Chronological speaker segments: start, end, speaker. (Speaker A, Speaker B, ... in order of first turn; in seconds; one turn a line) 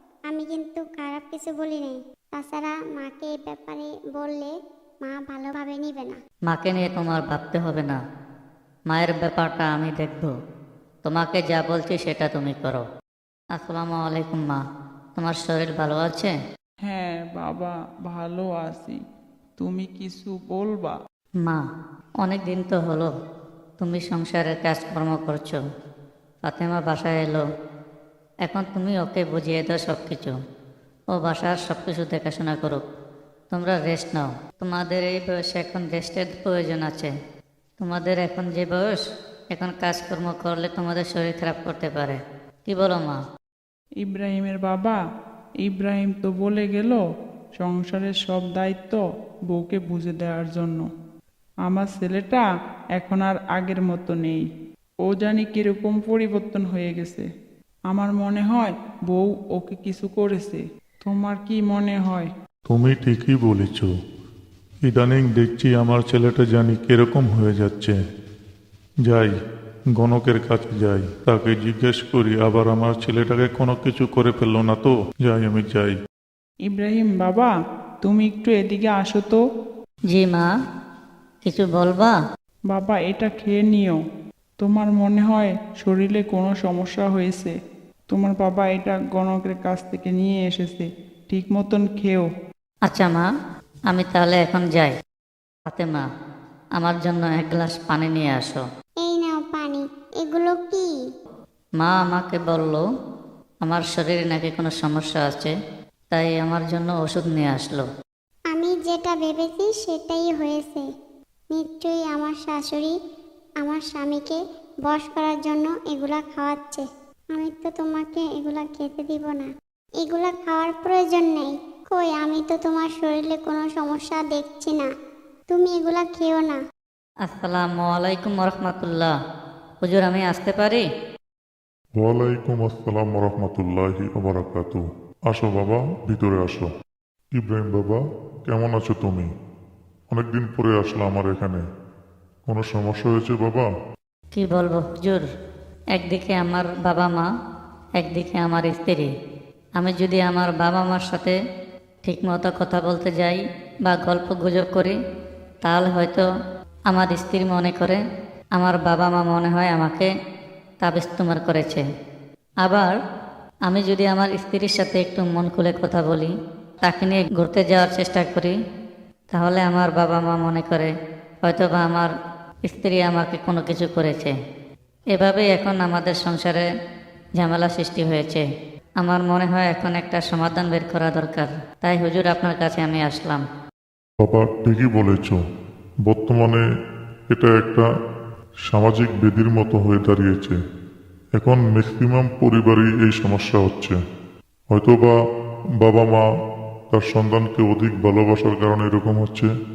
Speaker A: 0.3-6.2
Speaker B: 6.5-8.0
Speaker B: 8.9-10.3
Speaker B: 11.0-12.8
Speaker B: 13.5-14.6
Speaker B: 15.2-16.3
Speaker C: 16.8-19.0
Speaker C: 19.6-21.0
Speaker B: 22.2-23.1
Speaker B: 23.8-25.6
Speaker B: 26.4-27.4
Speaker B: 28.4-30.3
Speaker B: 31.1-32.8
Speaker B: 33.5-37.1
Speaker B: 37.8-43.2
Speaker C: 44.0-45.0
Speaker C: 45.6-47.0
Speaker C: 47.6-50.9
Speaker C: 51.6-52.4
Speaker C: 53.0-54.4
Speaker C: 55.0-57.2
Speaker C: 57.9-62.3
Speaker D: 62.7-63.9
Speaker D: 64.9-68.0
Speaker D: 69.0-69.3
Speaker D: 70.0-76.0
Speaker C: 76.7-77.5
Speaker C: 78.0-79.4
Speaker B: 80.1-80.5
Speaker B: 81.4-82.2
Speaker C: 82.7-84.0
Speaker C: 84.6-87.5
Speaker C: 88.1-92.3
Speaker B: 92.8-93.2
Speaker B: 93.9-94.9
Speaker B: 95.7-96.0
Speaker B: 96.8-98.6
Speaker A: 99.0-101.0
Speaker B: 101.8-102.8
Speaker B: 103.6-105.5
Speaker B: 106.1-107.8
Speaker A: 108.5-110.8
Speaker A: 111.5-112.9
Speaker A: 113.6-119.5
Speaker A: 120.0-124.9
Speaker A: 125.5-126.6
Speaker B: 127.2-129.1
Speaker B: 129.8-130.8
Speaker E: 132.0-136.7
Speaker E: 137.3-139.3
Speaker E: 140.1-141.6
Speaker E: 142.5-143.7
Speaker B: 144.3-145.2
Speaker B: 145.9-147.3
Speaker B: 148.0-149.1
Speaker B: 149.8-151.3
Speaker B: 152.0-154.9
Speaker B: 155.6-156.3
Speaker B: 156.9-158.0
Speaker B: 158.6-160.1
Speaker B: 160.8-161.8
Speaker B: 162.6-162.9
Speaker B: 163.7-166.3
Speaker B: 166.8-168.5
Speaker B: 169.3-170.9
Speaker B: 171.4-172.1
Speaker B: 172.6-174.3
Speaker B: 175.1-176.7
Speaker B: 177.4-178.4
Speaker B: 179.0-183.4
Speaker E: 184.2-185.4
Speaker E: 186.1-186.6
Speaker E: 187.3-187.9
Speaker E: 188.7-190.6
Speaker E: 191.4-194.0
Speaker E: 194.7-195.2
Speaker E: 195.8-196.2
Speaker E: 196.9-199.5